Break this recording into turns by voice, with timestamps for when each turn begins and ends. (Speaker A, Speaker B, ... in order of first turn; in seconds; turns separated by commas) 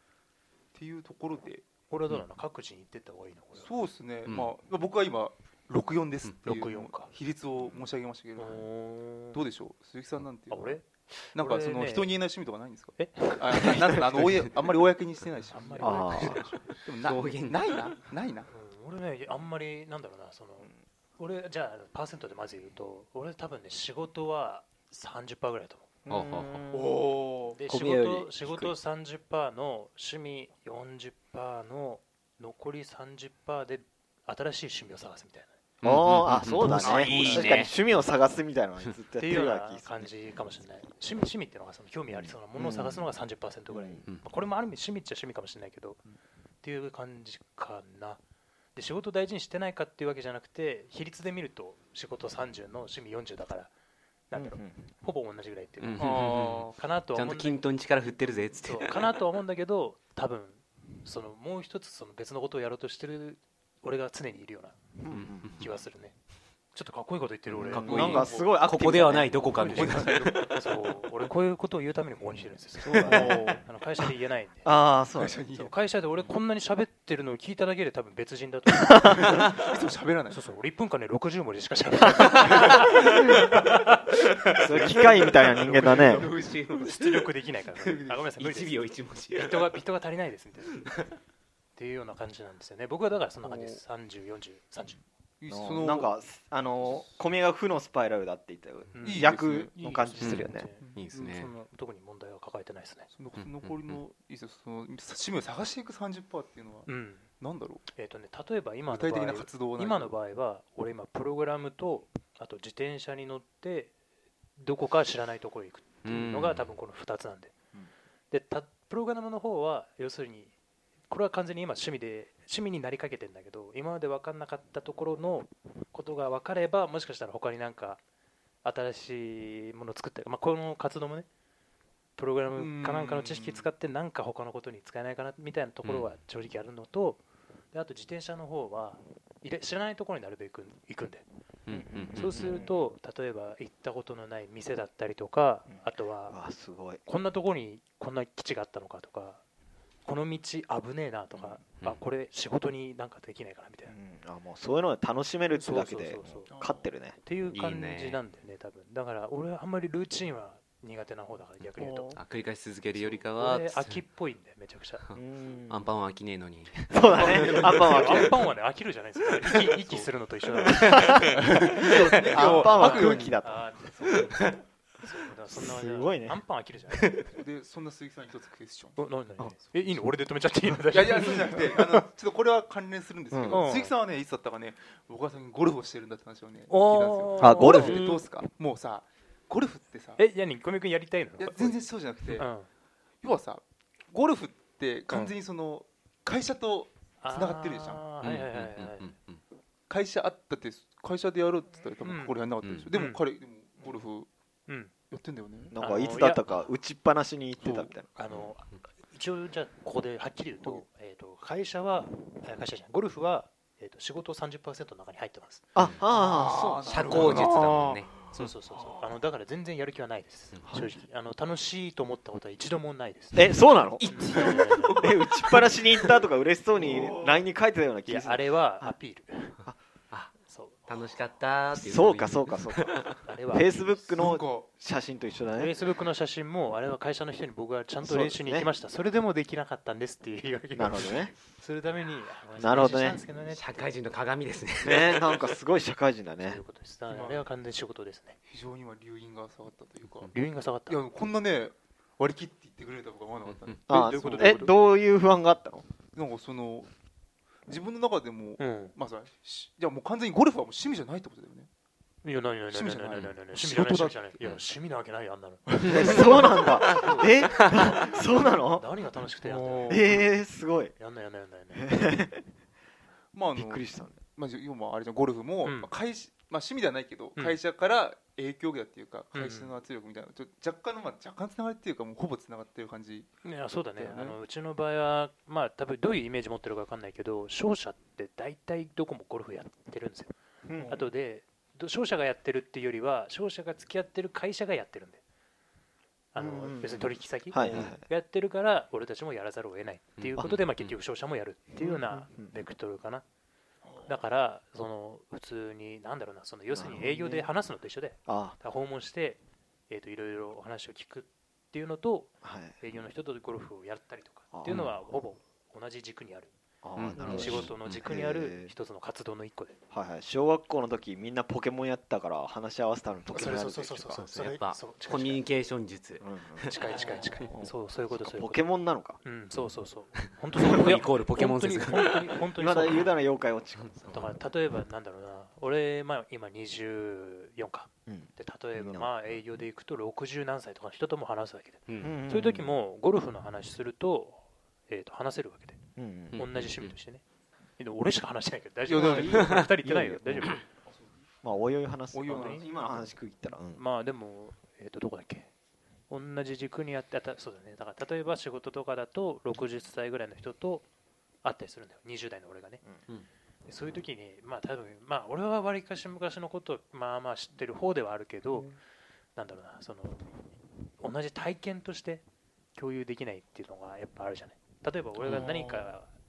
Speaker A: 0.7-1.7, Speaker B: 1.9-3.7, Speaker A: 3.6-8.6, Speaker C: 4.2-4.5, Speaker B: 6.4-7.1, Speaker B: 8.4-9.4, Speaker A: 9.3-10.8, Speaker B: 10.5-12.2, Speaker A: 11.3-18.5, Speaker B: 13.0-14.5, Speaker B: 15.5-16.6, Speaker D: 15.8-16.4, Speaker C: 17.0-17.9, Speaker B: 18.5-25.9, Speaker D: 26.0-27.0, Speaker C: 26.1-26.7, Speaker A: 26.7-27.6, Speaker B: 27.5-35.5, Speaker D: 27.7-28.7, Speaker C: 35.8-37.7, Speaker D: 35.8-40.1, Speaker A: 36.8-37.6, Speaker B: 39.1-46.0, Speaker D: 42.1-43.1, Speaker D: 43.7-44.0, Speaker B: 46.6-48.2, Speaker B: 48.7-53.7, Speaker B: 54.3-56.1, Speaker D: 54.3-54.8, Speaker C: 55.8-59.1, Speaker A: 56.0-56.8, Speaker B: 56.7-57.6, Speaker B: 58.6-64.8, Speaker D: 65.0-65.7, Speaker C: 65.1-65.6, Speaker B: 65.5-66.2, Speaker B: 66.7-68.3, Speaker C: 67.5-70.2, Speaker D: 67.6-69.5, Speaker A: 67.9-68.5, Speaker B: 69.3-74.7, Speaker A: 69.7-70.5, Speaker D: 72.8-73.6, Speaker A: 73.0-73.6, Speaker D: 74.6-75.4, Speaker A: 75.2-75.7, Speaker B: 75.5-79.5, Speaker D: 78.8-79.4, Speaker A: 79.2-80.4, Speaker B: 80.3-83.9, Speaker C: 82.5-83.5, Speaker C: 84.2-89.8, Speaker D: 84.6-86.3, Speaker A: 84.7-86.2, Speaker B: 86.7-90.9, Speaker A: 87.9-88.2, Speaker C: 90.7-91.0, Speaker B: 91.8-95.0, Speaker A: 93.4-93.8, Speaker A: 95.4-96.2, Speaker D: 95.5-100.7, Speaker A: 96.8-97.1, Speaker B: 98.9-103.1, Speaker A: 99.0-99.7, Speaker C: 100.2-101.5, Speaker A: 100.8-101.5, Speaker A: 103.1-107.8, Speaker C: 103.3-104.0, Speaker B: 106.9-107.3, Speaker B: 107.9-113.9, Speaker A: 108.9-110.1, Speaker B: 114.6-117.5, Speaker C: 116.0-116.7, Speaker B: 118.3-120.5, Speaker B: 121.1-128.0, Speaker B: 128.6-131.3, Speaker B: 132.2-137.2, Speaker A: 132.5-133.7, Speaker C: 135.8-136.2, Speaker B: 137.7-141.2, Speaker C: 141.7-142.5, Speaker D: 141.7-142.8, Speaker B: 142.1-146.4, Speaker D: 145.7-147.0, Speaker B: 147.0-149.4, Speaker B: 150.0-153.9, Speaker D: 151.3-151.6, Speaker D: 153.9-157.2, Speaker B: 155.5-162.2, Speaker A: 156.5-156.8, Speaker C: 157.5-158.2, Speaker A: 161.8-162.1, Speaker C: 162.2-164.0, Speaker B: 163.0-165.0, Speaker C: 165.0-167.9, Speaker D: 165.1-165.9, Speaker D: 166.9-168.4, Speaker A: 167.1-168.5, Speaker B: 167.1-171.7, Speaker A: 169.4-170.1, Speaker D: 170.8-173.7, Speaker C: 171.0-172.6, Speaker A: 171.4-173.4, Speaker B: 172.3-177.2, Speaker C: 174.2-174.5, Speaker D: 175.5-176.4, Speaker A: 177.2-179.0, Speaker B: 179.0-182.1, Speaker A: 180.9-190.2, Speaker D: 183.3-183.7, Speaker B: 183.5-183.9, Speaker B: 186.7-188.2, Speaker D: 187.4-188.1, Speaker B: 190.2-192.7, Speaker A: 191.4-192.5, Speaker A: 193.2-198.0, Speaker B: 197.2-199.1, Speaker C: 198.2-199.4, Speaker A: 199.9-204.3, Speaker B: 202.0-202.4, Speaker C: 202.6-202.9, Speaker B: 202.9-203.2, Speaker B: 204.7-204.9, Speaker A: 205.1-205.7, Speaker D: 205.7-208.1, Speaker B: 205.8-206.7, Speaker A: 207.6-207.9, Speaker B: 208.1-215.7, Speaker C: 208.3-208.7, Speaker D: 215.7-217.4, Speaker A: 216.1-218.2, Speaker C: 216.8-218.3, Speaker B: 218.3-223.5, Speaker D: 220.7-221.0, Speaker D: 223.3-228.9, Speaker C: 224.0-226.1, Speaker B: 224.1-225.0, Speaker A: 226.8-227.4, Speaker B: 228.1-229.6, Speaker B: 230.4-230.9, Speaker C: 230.9-233.2, Speaker D: 231.7-235.8, Speaker B: 233.2-234.3, Speaker A: 234.2-234.7, Speaker B: 235.5-244.0, Speaker D: 238.0-238.7, Speaker D: 240.7-241.3, Speaker D: 242.6-243.2, Speaker C: 243.4-245.5, Speaker D: 244.8-246.6, Speaker B: 246.4-248.4, Speaker A: 247.1-247.5, Speaker A: 248.5-250.3, Speaker B: 250.3-251.0, Speaker A: 250.9-254.7, Speaker C: 253.4-253.8, Speaker D: 253.9-255.8, Speaker B: 253.9-254.7, Speaker A: 256.1-256.9, Speaker A: 257.7-261.7, Speaker B: 258.6-258.9, Speaker B: 262.2-270.2, Speaker A: 262.7-264.4, Speaker A: 265.7-266.9, Speaker D: 265.9-268.9, Speaker C: 266.0-267.9, Speaker A: 269.4-270.2, Speaker D: 269.9-270.9, Speaker B: 270.9-272.2, Speaker D: 271.7-272.4, Speaker A: 273.3-283.3, Speaker D: 273.5-274.2, Speaker B: 275.6-275.9, Speaker B: 279.3-279.7, Speaker B: 283.4-290.3, Speaker A: 283.9-284.4, Speaker D: 290.6-291.1, Speaker B: 290.9-295.2, Speaker B: 296.3-303.2, Speaker D: 296.4-298.0, Speaker C: 297.7-297.9, Speaker C: 300.2-300.9, Speaker D: 301.8-302.6, Speaker B: 304.1-316.5, Speaker D: 306.7-307.5, Speaker D: 308.3-308.6, Speaker D: 312.4-312.8, Speaker D: 314.5-315.0, Speaker C: 314.7-314.9, Speaker D: 316.8-318.7, Speaker C: 316.9-318.1, Speaker B: 317.2-319.8, Speaker D: 319.9-324.2, Speaker B: 323.3-325.4, Speaker C: 324.1-326.8, Speaker D: 326.2-329.2, Speaker B: 326.6-328.7, Speaker B: 329.2-333.1, Speaker C: 330.1-332.3, Speaker D: 332.5-334.0, Speaker C: 333.8-334.4, Speaker B: 334.1-345.8, Speaker D: 338.1-339.1, Speaker C: 341.9-342.1, Speaker D: 342.0-342.7, Speaker D: 346.0-346.4, Speaker C: 346.3-346.9, Speaker B: 346.3-347.2, Speaker B: 347.8-350.6, Speaker A: 348.9-349.6, Speaker D: 348.9-350.6, Speaker C: 349.4-349.7, Speaker D: 351.4-353.8, Speaker A: 352.1-353.0, Speaker B: 352.2-352.7, Speaker B: 353.7-355.5, Speaker B: 356.1-360.9, Speaker B: 361.4-362.8, Speaker B: 363.7-368.7, Speaker B: 369.4-370.3, Speaker B: 371.0-372.2, Speaker B: 372.7-376.1, Speaker C: 375.2-375.6, Speaker A: 375.4-375.9